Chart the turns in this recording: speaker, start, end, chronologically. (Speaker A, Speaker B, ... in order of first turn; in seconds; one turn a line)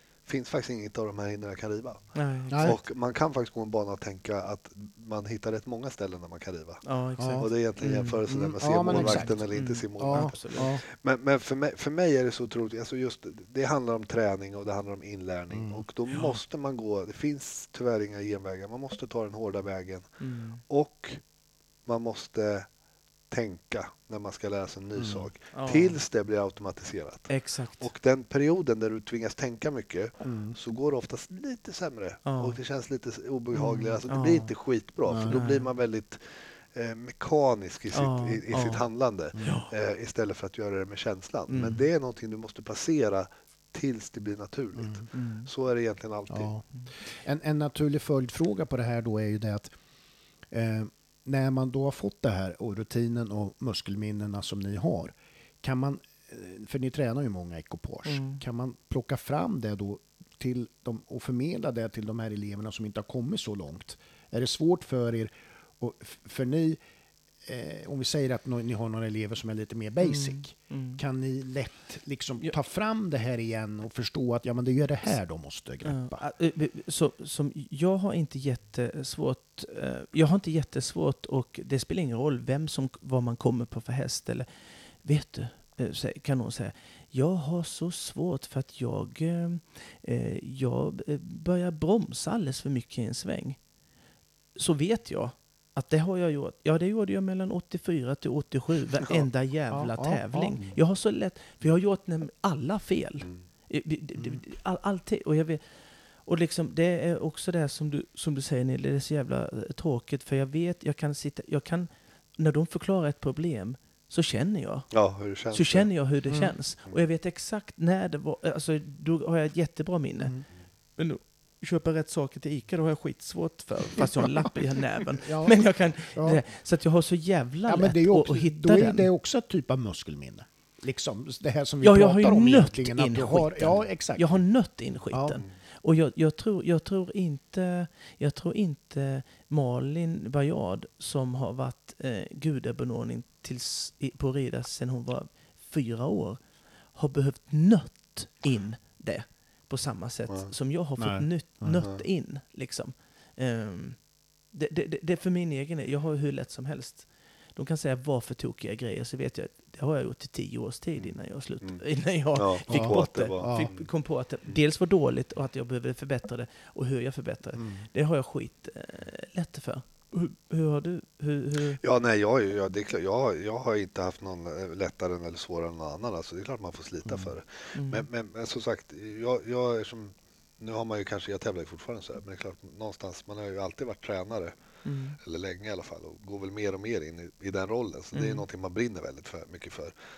Speaker A: 0.3-6.8
Speaker B: 2.1-2.8
Speaker C: 2.5-2.8
Speaker B: 6.8-8.2
Speaker C: 7.2-7.5
Speaker A: 7.4-20.1
Speaker C: 8.3-9.4
Speaker B: 8.9-10.7
Speaker C: 10.0-10.8
Speaker C: 15.5-15.8
Speaker B: 16.1-16.4
Speaker B: 20.2-20.6
Speaker A: 20.7-21.2
Speaker A: 21.9-22.7
Speaker A: 23.3-36.2
Speaker C: 25.0-25.3
Speaker B: 25.5-26.0
Speaker B: 27.3-27.9
Speaker C: 30.2-30.6
Speaker B: 32.3-32.6
Speaker B: 33.5-34.5
Speaker C: 35.1-35.4
Speaker B: 35.3-35.7
Speaker A: 36.7-46.5
Speaker B: 37.9-38.8
Speaker B: 39.4-39.7
Speaker B: 41.5-41.9
Speaker C: 44.8-45.0
Speaker B: 45.1-45.5
Speaker C: 46.3-46.6
Speaker C: 47.2-49.7
Speaker C: 50.5-66.8
Speaker B: 58.0-58.4
Speaker C: 67.5-76.2
Speaker B: 70.0-71.0
Speaker B: 75.8-84.5
Speaker B: 85.0-93.6
Speaker B: 94.6-105.6
Speaker C: 99.7-100.6
Speaker B: 106.3-114.9
Speaker A: 114.9-115.9
Speaker B: 115.5-120.3
Speaker B: 121.0-129.1
Speaker C: 125.2-126.4
Speaker C: 127.7-134.4
Speaker B: 131.8-146.4
Speaker C: 135.1-135.4
Speaker B: 146.9-154.0
Speaker C: 151.0-151.8
Speaker B: 154.5-171.8
Speaker A: 161.0-161.8
Speaker A: 162.3-163.9
Speaker C: 162.7-163.7
Speaker C: 167.6-167.9
Speaker A: 171.8-184.6
Speaker C: 177.1-177.3
Speaker B: 177.7-178.1
Speaker B: 184.8-185.2
Speaker A: 185.2-189.9
Speaker B: 188.1-188.4